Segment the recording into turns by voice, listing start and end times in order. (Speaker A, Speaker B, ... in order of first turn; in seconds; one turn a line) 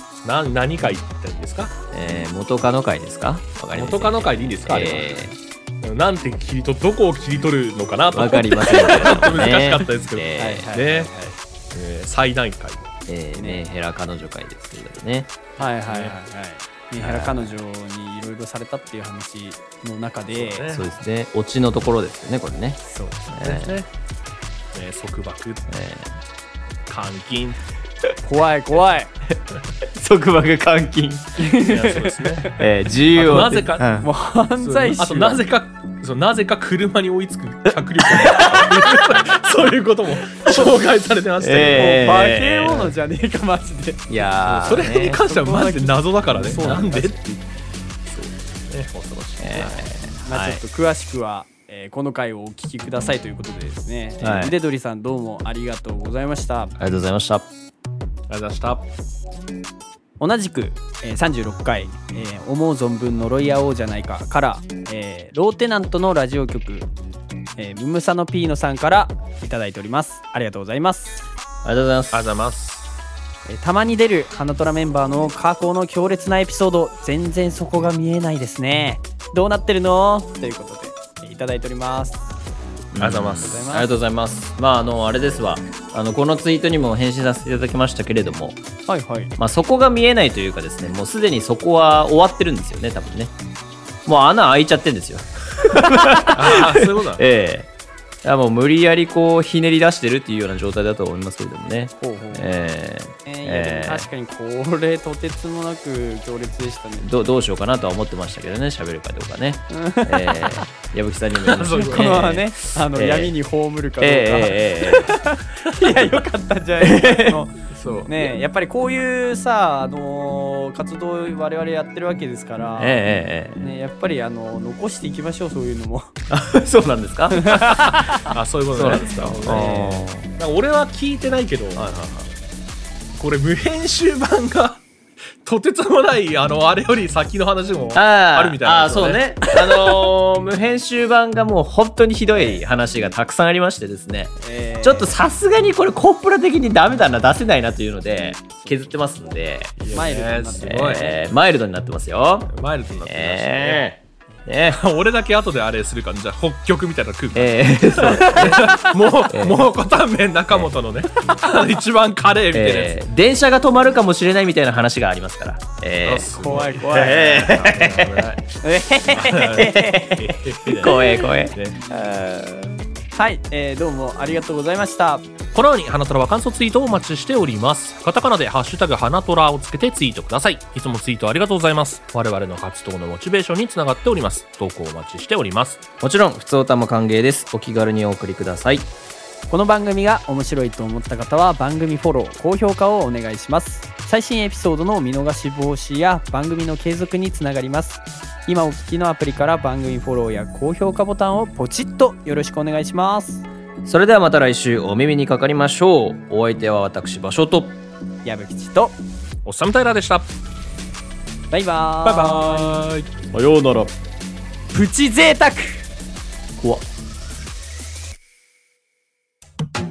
Speaker A: 0.2-1.7
Speaker B: 1.9-5.4
Speaker A: 3.7-5.1
Speaker A: 5.8-11.1
Speaker B: 8.1-10.7
Speaker C: 10.4-11.3
Speaker A: 11.7-12.9
Speaker B: 13.1-15.3
Speaker C: 13.4-13.6
Speaker C: 15.6-20.8
Speaker A: 15.9-16.2
Speaker B: 17.0-17.6
Speaker A: 20.3-20.9
Speaker B: 20.7-23.8
Speaker C: 22.9-23.3
Speaker A: 23.4-23.9
Speaker A: 24.7-25.7
Speaker B: 25.7-26.2
Speaker A: 26.9-27.6
Speaker C: 28.2-29.1
Speaker B: 29.9-31.3
Speaker C: 31.4-32.3
Speaker A: 31.5-32.6
Speaker B: 32.6-34.1
Speaker A: 33.1-34.0
Speaker C: 34.0-35.4
Speaker A: 34.6-42.0
Speaker B: 38.1-39.0
Speaker B: 41.4-42.9
Speaker C: 41.8-44.1
Speaker B: 44.1-45.2
Speaker A: 44.5-47.4
Speaker C: 45.1-47.2
Speaker B: 46.5-46.9
Speaker A: 48.1-49.9
Speaker B: 49.4-50.6
Speaker C: 50.2-56.7
Speaker B: 54.2-54.5
Speaker B: 56.8-57.5
Speaker A: 58.3-58.9
Speaker C: 60.2-66.9
Speaker C: 67.6-71.2
Speaker B: 71.7-72.2
Speaker A: 72.1-72.8
Speaker C: 73.5-82.2
Speaker B: 82.9-88.6
Speaker A: 83.0-83.5
Speaker C: 83.2-83.9
Speaker C: 88.9-89.3
Speaker B: 89.4-93.3
Speaker B: 94.1-97.7
Speaker A: 96.3-97.2
Speaker B: 98.2-104.1
Speaker C: 102.0-102.5
Speaker C: 103.3-107.1
Speaker B: 107.0-113.3
Speaker C: 109.7-110.7
Speaker A: 111.5-112.4
Speaker C: 111.8-123.0
Speaker B: 114.0-115.2
Speaker A: 115.7-116.1
Speaker B: 116.8-117.4
Speaker A: 117.7-118.3
Speaker B: 122.8-123.7
Speaker C: 123.6-126.1
Speaker B: 126.3-130.3
Speaker C: 127.3-128.2
Speaker A: 127.9-129.8
Speaker C: 129.4-130.1
Speaker A: 130.3-131.8
Speaker B: 131.8-132.3
Speaker A: 133.2-134.8
Speaker A: 135.4-139.5
Speaker B: 137.9-149.8
Speaker C: 142.3-142.6
Speaker C: 144.4-145.2
Speaker C: 148.6-149.0
Speaker A: 149.8-151.1
Speaker C: 149.9-151.2
Speaker B: 150.6-152.5
Speaker A: 152.5-153.9
Speaker B: 153.1-154.8
Speaker A: 154.7-163.0
Speaker B: 157.3-159.6
Speaker B: 162.5-168.2
Speaker A: 166.1-168.5
Speaker C: 166.3-167.5
Speaker C: 168.6-170.0
Speaker A: 169.1-171.9
Speaker B: 169.3-171.6
Speaker B: 172.3-172.8
Speaker C: 173.1-175.2
Speaker A: 175.5-185.8
Speaker B: 186.0-188.9
Speaker C: 189.5-203.4
Speaker B: 203.8-207.8
Speaker C: 208.2-209.0
Speaker A: 209.4-210.3
Speaker C: 211.5-212.7
Speaker A: 212.0-213.1
Speaker B: 213.3-213.9
Speaker C: 214.7-215.8
Speaker B: 216.6-216.8